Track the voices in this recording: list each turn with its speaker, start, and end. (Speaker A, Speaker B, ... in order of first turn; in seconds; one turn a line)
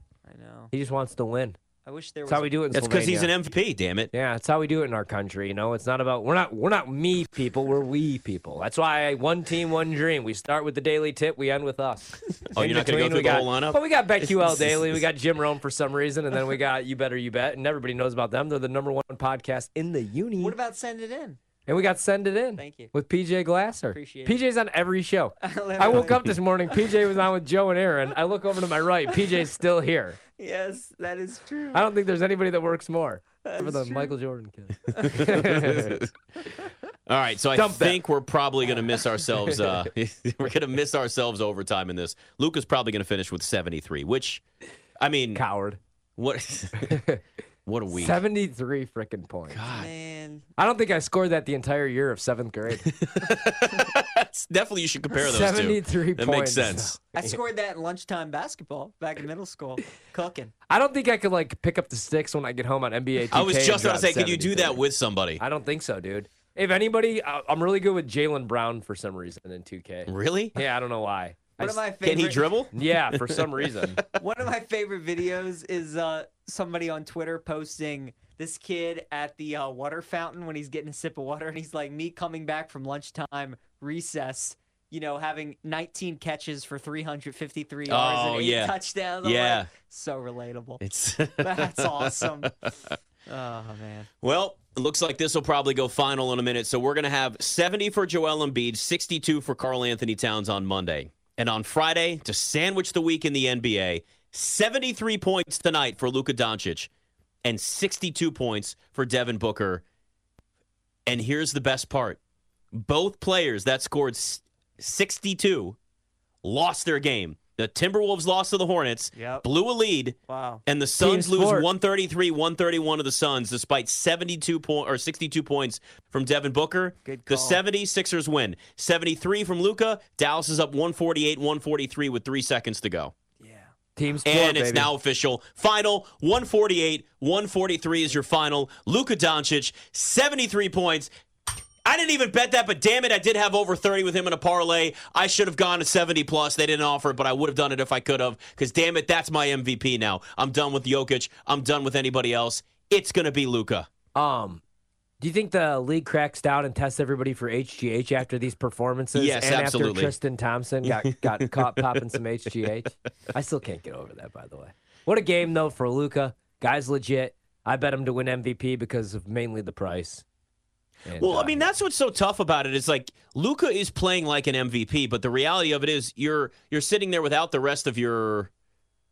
Speaker A: 0.2-0.7
Speaker B: 0.7-1.6
Speaker A: 1.9-2.6
Speaker B: 2.3-3.3
Speaker C: 2.7-4.1
Speaker B: 4.1-20.6
Speaker C: 12.6-15.0
Speaker A: 20.4-21.4
Speaker B: 21.7-30.2
Speaker A: 22.6-22.9
Speaker A: 23.9-24.4
Speaker A: 25.4-26.9
Speaker A: 30.4-31.9
Speaker B: 31.7-36.0
Speaker A: 33.4-34.1
Speaker C: 35.0-36.0
Speaker C: 37.1-44.4
Speaker B: 37.5-38.0
Speaker B: 39.5-39.8
Speaker C: 45.0-45.4
Speaker B: 45.3-45.8
Speaker C: 46.2-47.0
Speaker B: 46.9-47.2
Speaker C: 47.6-48.2
Speaker B: 47.9-49.6
Speaker C: 49.5-49.9
Speaker A: 49.7-50.5
Speaker B: 50.6-52.9
Speaker C: 52.9-57.0
Speaker B: 55.2-57.4
Speaker A: 57.2-60.5
Speaker B: 60.7-64.8
Speaker C: 63.3-65.4
Speaker B: 65.4-71.8
Speaker C: 70.1-70.6
Speaker A: 71.6-72.5
Speaker C: 72.0-74.0
Speaker B: 72.7-74.0
Speaker A: 74.2-90.8
Speaker C: 87.9-89.7
Speaker C: 90.8-93.0
Speaker A: 91.4-92.5
Speaker A: 93.3-94.1
Speaker C: 94.2-106.9
Speaker C: 107.4-109.8
Speaker C: 111.1-112.2
Speaker C: 112.7-115.8
Speaker C: 116.4-133.1
Speaker A: 119.1-119.5
Speaker A: 120.3-120.6
Speaker B: 121.0-121.7
Speaker A: 127.0-127.6
Speaker A: 133.4-133.7
Speaker B: 134.0-134.9
Speaker C: 134.2-141.1
Speaker C: 141.8-153.9
Speaker B: 154.2-154.6
Speaker B: 155.2-170.2
Speaker C: 159.2-160.2
Speaker C: 160.8-162.0
Speaker B: 171.1-171.7
Speaker C: 171.2-178.5